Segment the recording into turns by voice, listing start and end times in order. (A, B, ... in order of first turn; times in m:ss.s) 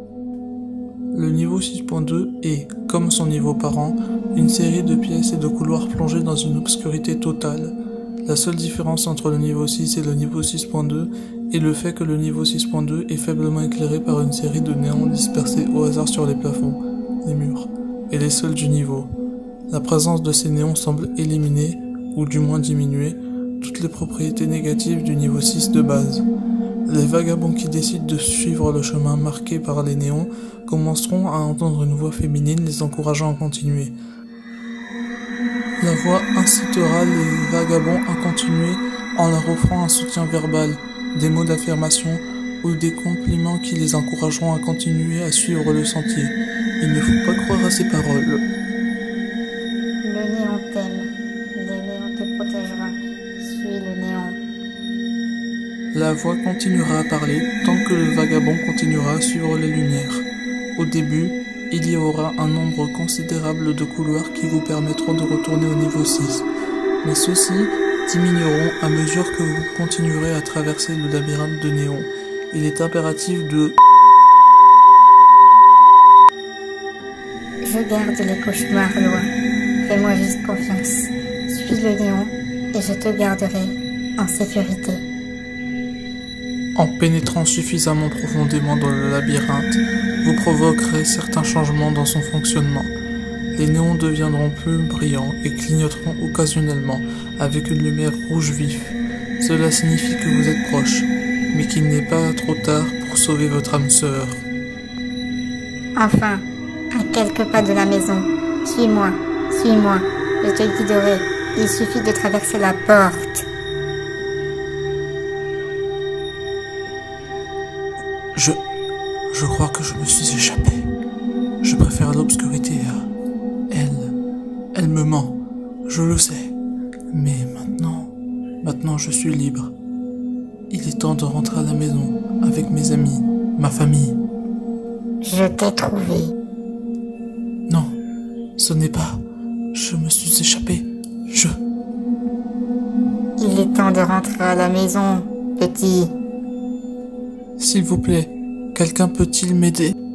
0:01.1-0:19.1 A
0:19.7-0:26.3 A
0:26.9-0:34.0 A
0:35.8-0:48.4 A
0:50.0-0:54.4 B
0:55.9-1:06.5 A
1:07.0-1:13.8 A
1:17.6-1:19.3 B
1:19.8-1:25.0 B
1:26.8-1:32.9 A
1:33.6-1:44.4 A
1:46.0-1:53.5 B
1:58.3-1:58.6 A
1:59.3-2:00.9 A
2:01.6-2:03.1 A
2:03.7-2:04.2 A
2:04.8-2:06.6 A
2:07.1-2:09.7 A
2:10.7-2:14.2 A
2:15.2-2:16.3 B
2:17.7-2:18.0 A
2:18.6-2:21.6 A
2:23.4-2:26.2 B
2:27.6-2:29.9 A